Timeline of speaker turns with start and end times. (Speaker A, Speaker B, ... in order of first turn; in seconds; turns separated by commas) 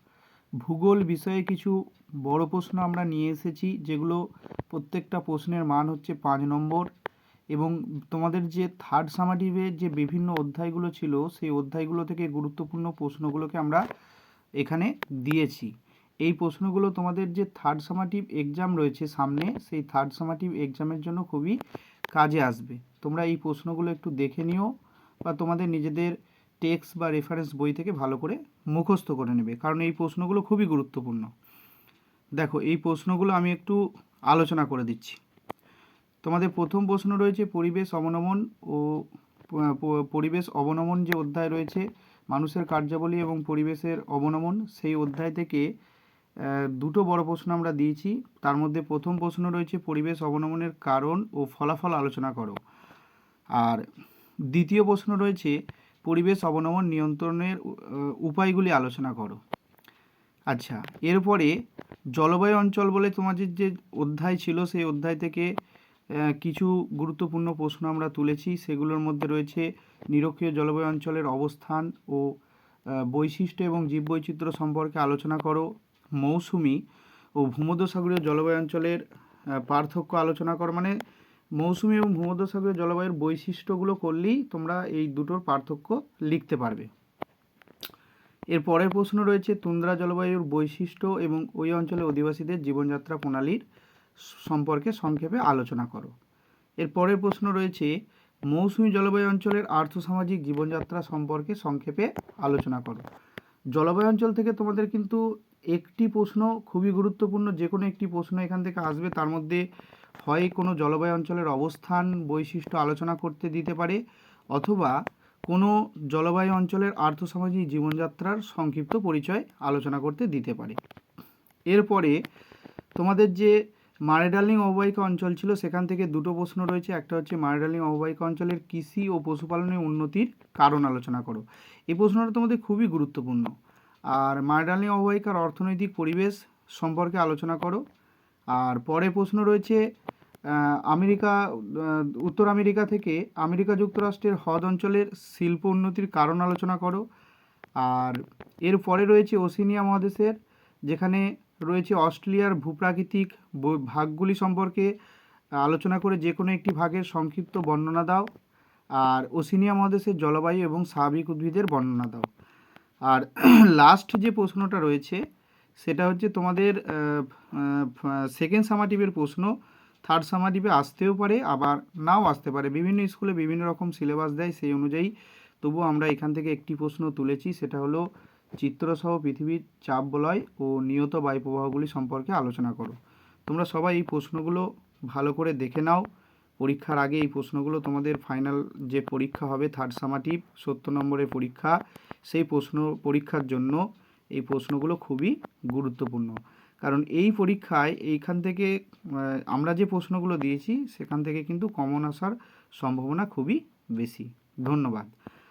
Speaker A: 0.6-4.2, Speaker A: 4.7-6.9, Speaker A: 7.5-13.8, Speaker A: 14.6-15.7, Speaker A: 16.2-21.6, Speaker A: 22.1-24.7, Speaker A: 25.2-31.3, Speaker A: 32.4-35.2, Speaker A: 36.2-45.7, Speaker A: 46.4-52.6, Speaker A: 53.6-53.8, Speaker A: 54.5-59.4, Speaker A: 60.5-61.5, Speaker A: 62.2-65.5, Speaker A: 66.2-72.3, Speaker A: 73.0-76.8, Speaker A: 77.4-81.0, Speaker A: 81.6-86.9, Speaker A: 88.5-93.6, Speaker A: 94.3-96.1, Speaker A: 96.8-97.9, Speaker A: 98.5-103.0, Speaker A: 103.7-105.2, Speaker A: 105.7-109.6, Speaker A: 110.2-114.0, Speaker A: 114.5-115.0, Speaker A: 115.5-120.8, Speaker A: 121.7-122.2, Speaker A: 123.0-133.5, Speaker A: 134.1-137.8, Speaker A: 138.5-139.8, Speaker A: 140.5-147.0, Speaker A: 147.8-150.3, Speaker A: 150.9-154.9, Speaker A: 155.6-158.3, Speaker A: 159.0-162.3, Speaker A: 163.1-165.2, Speaker A: 165.8-169.5, Speaker A: 170.1-178.0, Speaker A: 178.6-186.0, Speaker A: 186.6-191.8, Speaker A: 192.3-193.8, Speaker A: 194.3-205.1